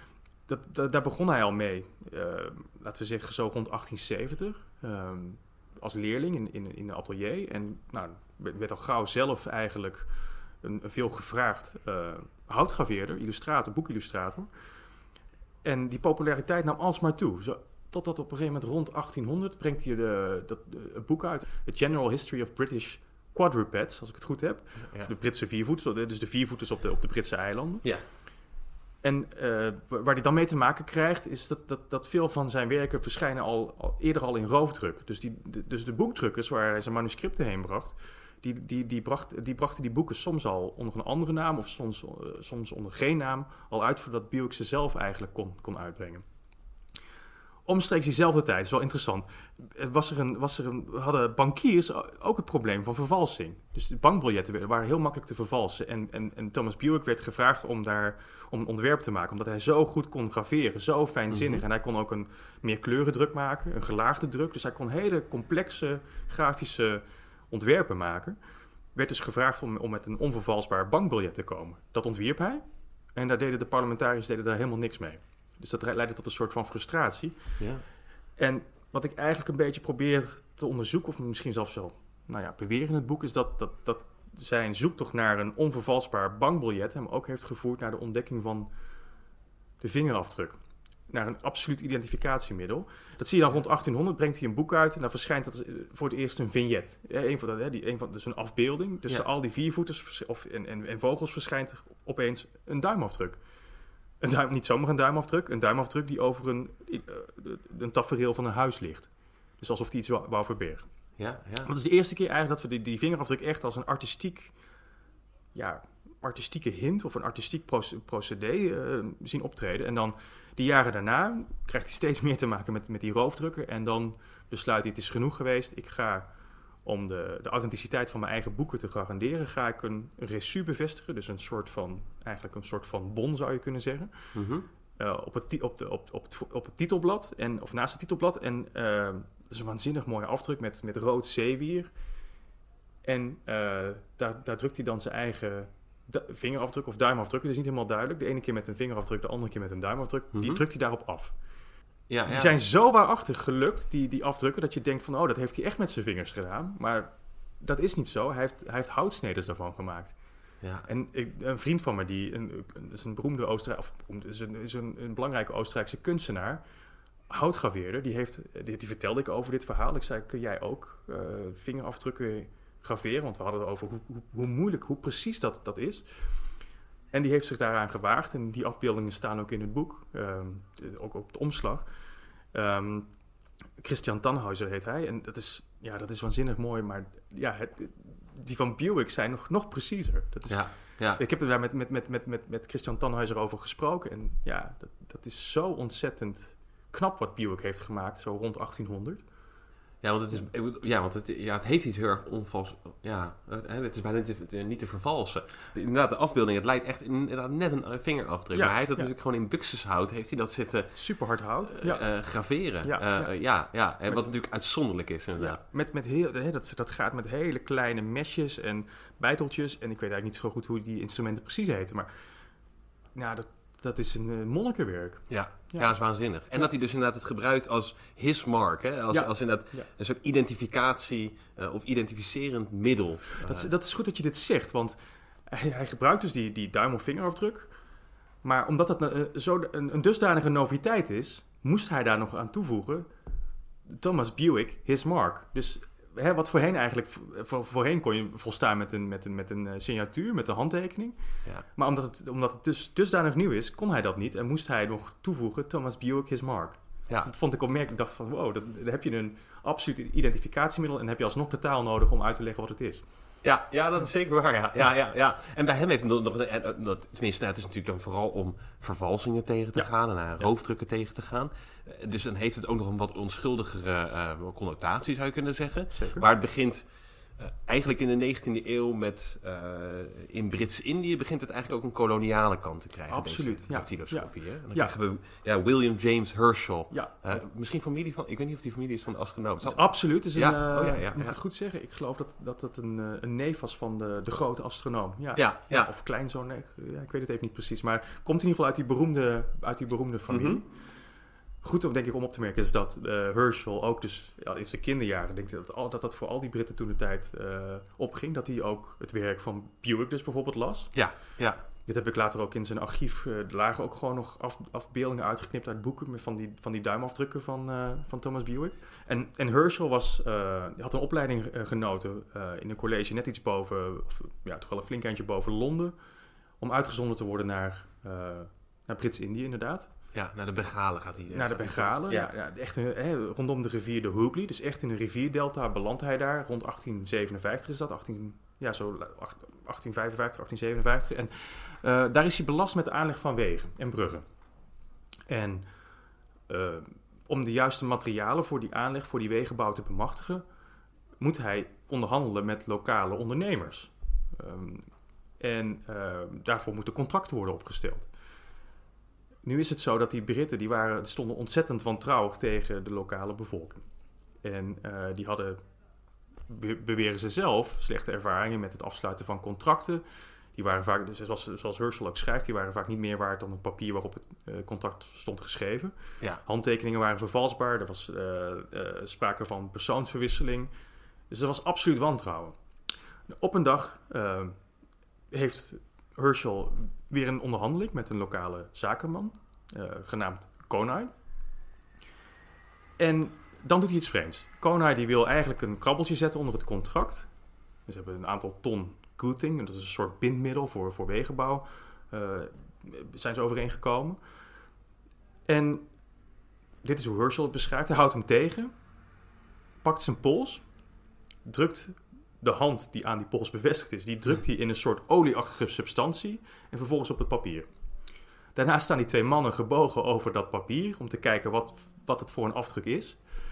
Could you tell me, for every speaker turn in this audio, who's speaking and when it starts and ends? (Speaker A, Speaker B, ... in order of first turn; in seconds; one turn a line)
Speaker A: 0.5-10.1
Speaker A: 10.6-14.5
Speaker A: 15.6-27.9
Speaker A: 29.0-46.2
Speaker A: 47.7-68.4
Speaker B: 61.3-61.6
Speaker A: 69.0-72.6
Speaker A: 73.2-77.4
Speaker B: 77.6-77.8
Speaker A: 78.4-88.7
Speaker A: 89.8-90.6
Speaker A: 91.1-103.4
Speaker A: 104.2-109.1
Speaker A: 109.6-110.9
Speaker B: 111.2-111.7
Speaker A: 111.6-114.5
Speaker A: 115.5-126.3
Speaker A: 126.8-134.1
Speaker B: 134.3-134.7
Speaker A: 135.0-141.9
Speaker A: 143.1-151.3
Speaker B: 150.3-150.6
Speaker B: 152.1-152.5
Speaker A: 152.3-160.2
Speaker A: 160.9-166.6
Speaker A: 167.3-176.1
Speaker A: 177.1-181.8
Speaker A: 182.5-183.1
Speaker A: 183.8-190.6
Speaker B: 190.5-191.2
Speaker A: 191.2-199.2
Speaker B: 200.0-210.9
Speaker A: 208.5-209.1
Speaker A: 210.9-212.1
Speaker B: 211.7-215.6
Speaker A: 212.8-213.3
Speaker A: 215.4-222.1
Speaker A: 223.2-225.9
Speaker B: 225.3-233.7
Speaker A: 229.1-229.9
Speaker A: 233.4-235.0
Speaker A: 235.5-237.7
Speaker A: 238.4-243.1
Speaker A: 243.9-251.2
Speaker A: 251.8-263.1
Speaker B: 263.4-276.8
Speaker A: 275.9-276.3
Speaker B: 277.4-291.4
Speaker A: 283.1-284.9
Speaker A: 286.9-287.2
Speaker A: 289.6-300.7
Speaker B: 295.4-295.9
Speaker B: 300.3-300.6
Speaker A: 301.6-310.9
Speaker B: 310.9-311.6
Speaker A: 311.9-325.9
Speaker A: 326.6-329.9
Speaker B: 330.1-332.3
Speaker A: 331.3-344.2
Speaker A: 345.3-345.6
Speaker A: 346.5-350.4
Speaker A: 351.2-354.9
Speaker A: 355.4-358.1
Speaker A: 359.4-363.8
Speaker A: 364.4-365.6
Speaker A: 366.5-370.0
Speaker A: 370.6-375.9
Speaker A: 376.4-380.7
Speaker A: 381.3-382.6
Speaker A: 383.3-384.6
Speaker A: 385.3-391.1
Speaker A: 393.0-397.3
Speaker A: 397.9-404.2
Speaker A: 405.5-405.9
Speaker A: 406.8-408.7
Speaker A: 409.8-410.6
Speaker A: 411.4-417.7
Speaker A: 418.6-423.2